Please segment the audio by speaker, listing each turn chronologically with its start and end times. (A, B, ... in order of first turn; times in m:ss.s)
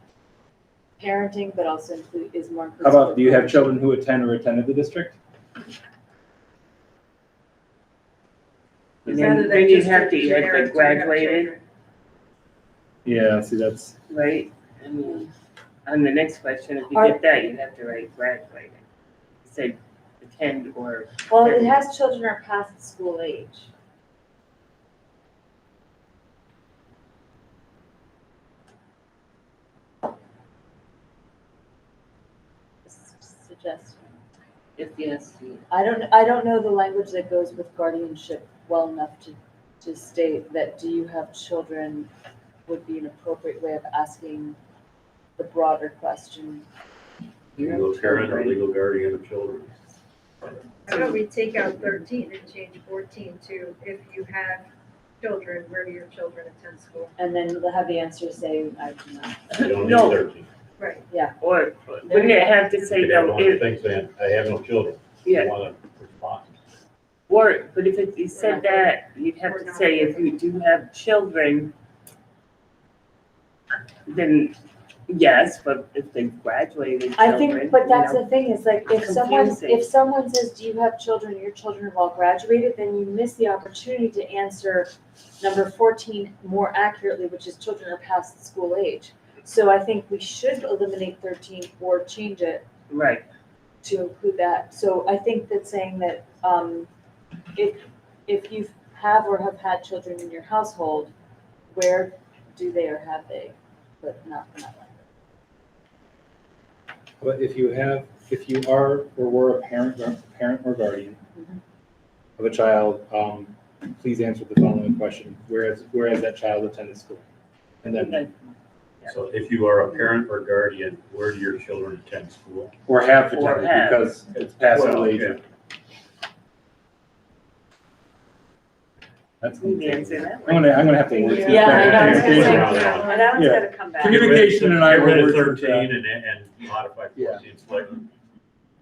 0:01.0-0:03.8 A
0:02.8-0:05.2 B
0:09.0-0:09.6 B
0:09.0-0:11.6 C
0:09.1-0:11.6 D
0:13.0-0:14.0 B
0:14.1-0:15.3 C
0:15.9-0:18.8 C
0:16.9-0:17.2 A
0:19.4-0:21.8 C
0:21.3-0:23.7 A
0:32.9-0:34.1 A
0:34.8-0:35.6 C
0:35.7-0:42.1 A
0:42.7-0:44.6 A
0:45.4-0:46.6 A
0:47.6-0:49.8 E
0:47.6-0:48.6 A
0:50.9-0:54.7 D
0:50.9-0:51.2 C
0:55.2-0:57.1 D
0:57.2-0:59.4 A
0:59.5-1:00.2 C
0:59.6-1:00.5 E
1:00.8-1:01.1 D
1:01.1-1:01.4 A
1:01.4-1:03.7 C
1:02.1-1:02.6 A
1:02.9-1:06.5 E
1:05.2-1:05.5 C
1:07.3-1:11.7 C
1:08.4-1:10.4 D
1:14.1-1:14.6 C
1:15.1-1:18.2 C
1:17.2-1:32.7 A
1:18.9-1:19.9 C
1:32.9-1:33.3 C
1:33.8-1:36.9 A
1:37.6-1:41.1 A
1:41.7-1:45.0 A
1:47.2-1:51.2 B
1:51.4-1:51.6 A
1:52.4-1:57.2 B
1:57.9-1:58.3 C
1:59.1-2:02.7 E
2:02.9-2:05.4 B
2:03.3-2:04.1 C
2:04.4-2:05.4 E
2:09.4-2:15.9 B
2:09.6-2:12.3 C
2:11.2-2:13.4 D
2:11.4-2:14.4 A
2:11.6-2:13.3 E
2:14.0-2:18.0 E
2:17.2-2:17.4 B